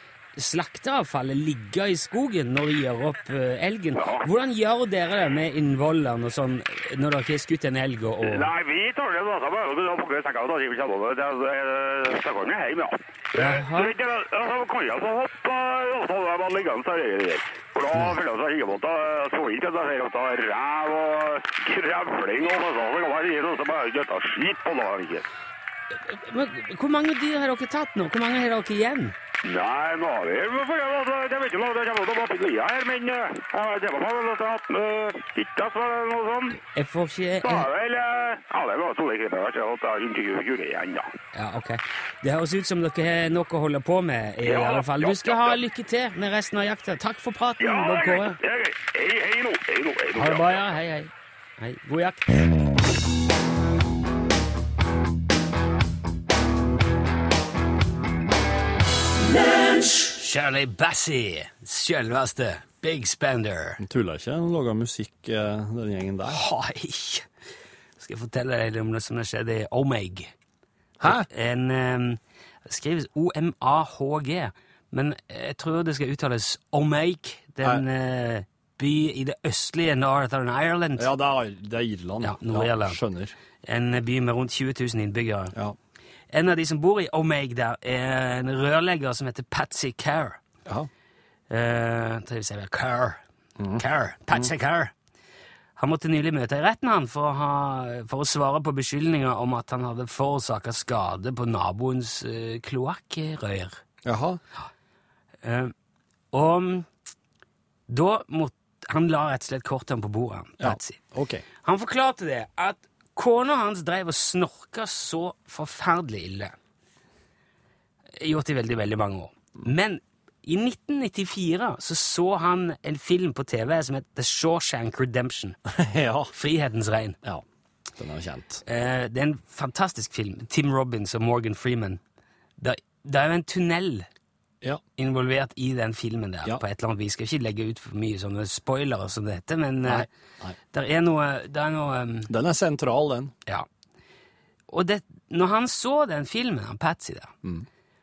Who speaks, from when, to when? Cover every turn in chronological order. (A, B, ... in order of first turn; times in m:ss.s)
0:00.4-0:08.5 A
0:04.0-0:04.2 B
0:08.2-0:25.2 B
0:13.3-0:13.9 A
0:26.0-0:29.2 A
0:29.4-0:36.6 B
0:36.7-0:37.7 A
0:37.4-0:41.1 B
0:41.3-0:48.4 A
0:44.4-0:45.6 B
0:47.6-0:50.7 B
0:50.2-0:52.5 A
0:59.8-1:03.8 A
1:03.8-1:06.4 C
1:06.2-1:07.2 A
1:08.0-1:10.3 A
1:11.0-1:11.3 C
1:11.0-1:21.1 A
1:21.0-1:23.3 C
1:22.2-1:23.0 A
1:23.6-1:25.5 A
1:26.3-1:30.4 A
1:31.5-1:33.2 A
1:33.8-1:34.9 A
1:35.8-1:43.8 A
1:44.0-1:44.4 C
1:45.4-1:45.7 A
1:46.3-1:46.9 A
1:47.9-1:51.0 A
1:50.6-1:51.4 C
1:51.6-1:56.5 A
1:58.2-2:05.6 A
2:05.8-2:06.3 C
2:06.3-2:07.2 A
2:08.0-2:08.6 C
2:08.6-2:12.0 A
2:12.6-2:14.1 A
2:15.0-2:20.1 A
2:19.9-2:20.5 C
2:20.7-2:22.3 A
2:22.3-2:23.3 C
2:24.7-2:27.3 A